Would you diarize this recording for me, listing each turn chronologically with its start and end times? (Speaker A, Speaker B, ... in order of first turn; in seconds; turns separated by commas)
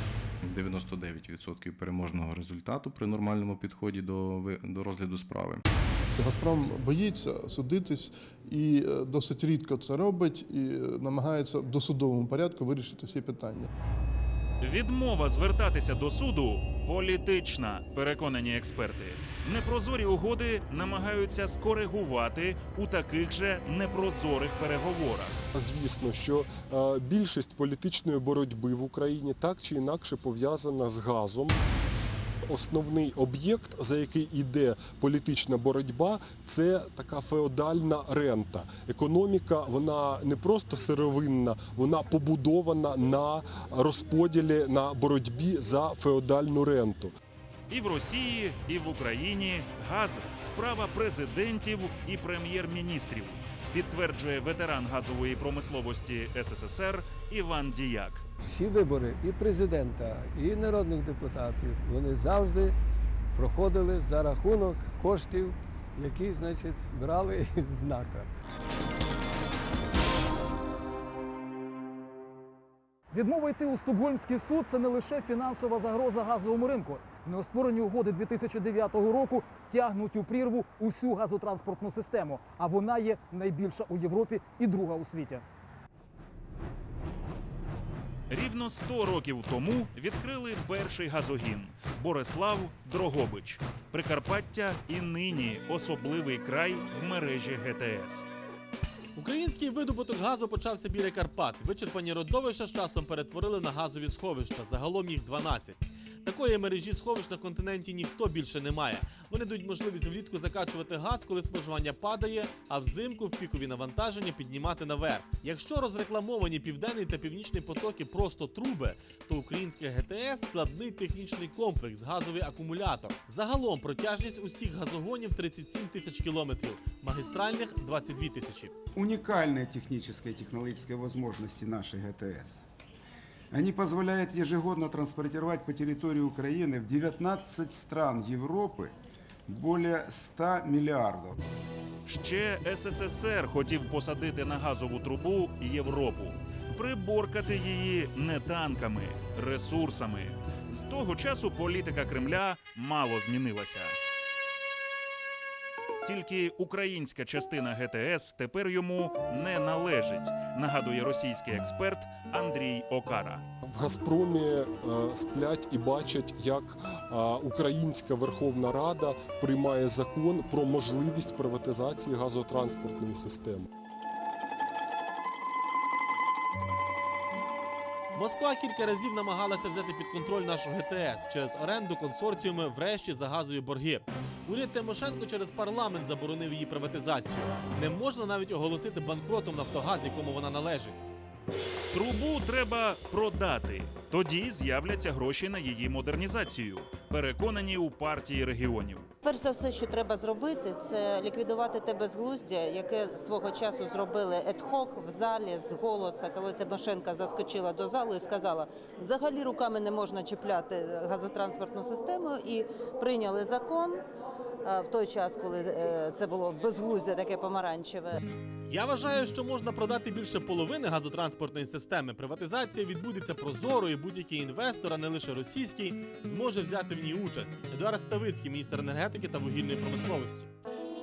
Speaker A: 0.4-5.6, Speaker B: 6.2-13.7, Speaker C: 14.6-25.4, Speaker D: 25.5-31.6, Speaker D: 32.5-47.1, Speaker C: 47.7-58.2, Speaker E: 58.4-62.7, Speaker E: 63.4-68.3, Speaker F: 73.1-85.4, Speaker C: 88.3-98.2, Speaker G: 99.2-128.7, Speaker H: 129.0-132.6, Speaker H: 133.5-138.9, Speaker H: 139.5-141.3, Speaker C: 142.1-154.0, Speaker C: 156.0-163.4, Speaker D: 163.7-173.7, Speaker G: 178.1-191.0, Speaker C: 191.9-199.1, Speaker I: 199.2-214.0, Speaker I: 214.6-218.2, Speaker G: 218.7-230.5